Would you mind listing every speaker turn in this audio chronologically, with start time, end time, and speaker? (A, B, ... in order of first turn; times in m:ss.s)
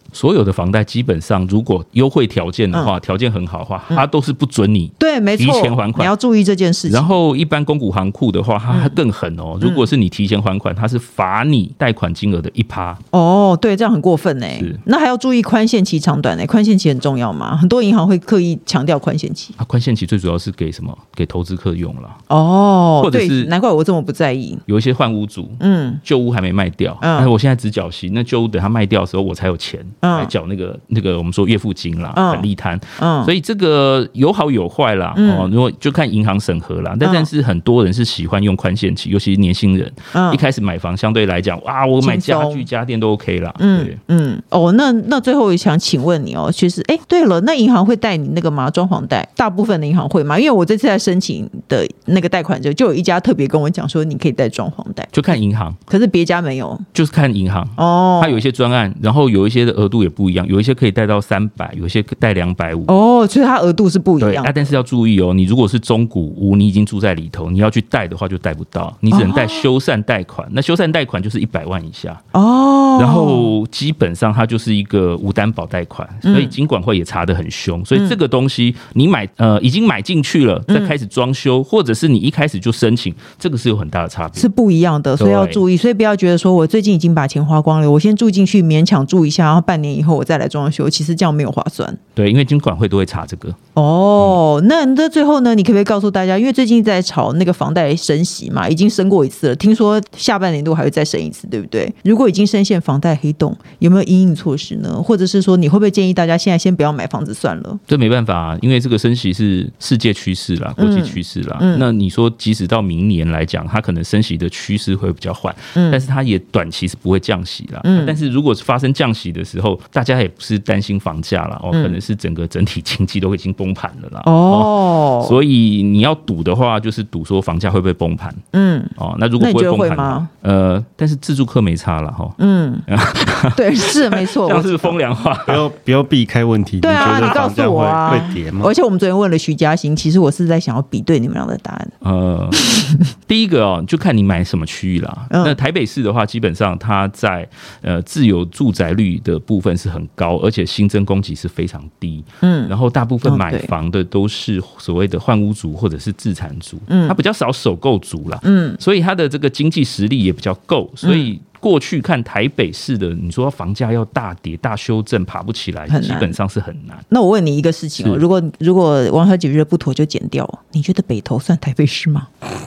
0:00.1-0:06.1 A
0:05.0-0:07.1 B
0:06.9-0:13.0 A
0:08.7-0:09.0 B
0:09.6-0:09.9 B
0:13.1-0:19.6 B
0:19.6-0:22.2 A
0:22.3-0:24.6 B
0:23.0-0:23.5 A
0:24.7-0:44.0 A
0:25.6-0:26.0 B
0:27.0-0:27.3 B
0:30.0-0:30.3 B
0:32.1-0:33.3 B
0:35.2-0:35.5 B
0:37.0-0:37.3 B
0:40.1-0:40.4 B
0:42.0-0:42.7 B
0:43.6-0:55.1 B
0:55.1-0:55.8 A
0:55.9-0:56.8 B
0:56.9-1:02.9 A
0:57.8-0:58.4 B
1:02.9-1:04.7 B
1:04.2-1:12.2 A
1:09.1-1:09.7 B
1:12.3-1:13.5 B
1:13.0-1:24.5 A
1:16.2-1:16.5 B
1:20.7-1:20.9 B
1:24.4-1:32.0 B
1:25.2-1:25.6 A
1:32.2-1:33.6 A
1:33.8-1:47.8 B
1:47.9-2:08.4 A
1:50.8-1:51.8 B
1:55.7-1:56.0 B
1:57.8-1:58.2 B
2:01.7-2:02.0 B
2:04.2-2:05.4 B
2:08.5-2:10.3 B
2:09.0-2:12.4 A
2:12.4-2:12.9 B
2:12.9-2:15.6 A
2:13.5-2:15.0 B
2:15.4-2:18.7 C
2:16.8-2:21.9 B
2:16.9-2:17.5 A
2:22.0-2:22.6 A
2:22.5-2:23.1 B
2:23.3-2:47.0 A
2:25.3-2:25.6 B
2:32.4-2:32.7 B
2:33.2-2:33.7 B
2:36.9-2:37.2 B
2:38.4-2:38.8 B
2:41.0-2:41.3 B
2:45.9-2:46.4 B
2:47.1-2:52.3 B
2:48.0-2:48.2 A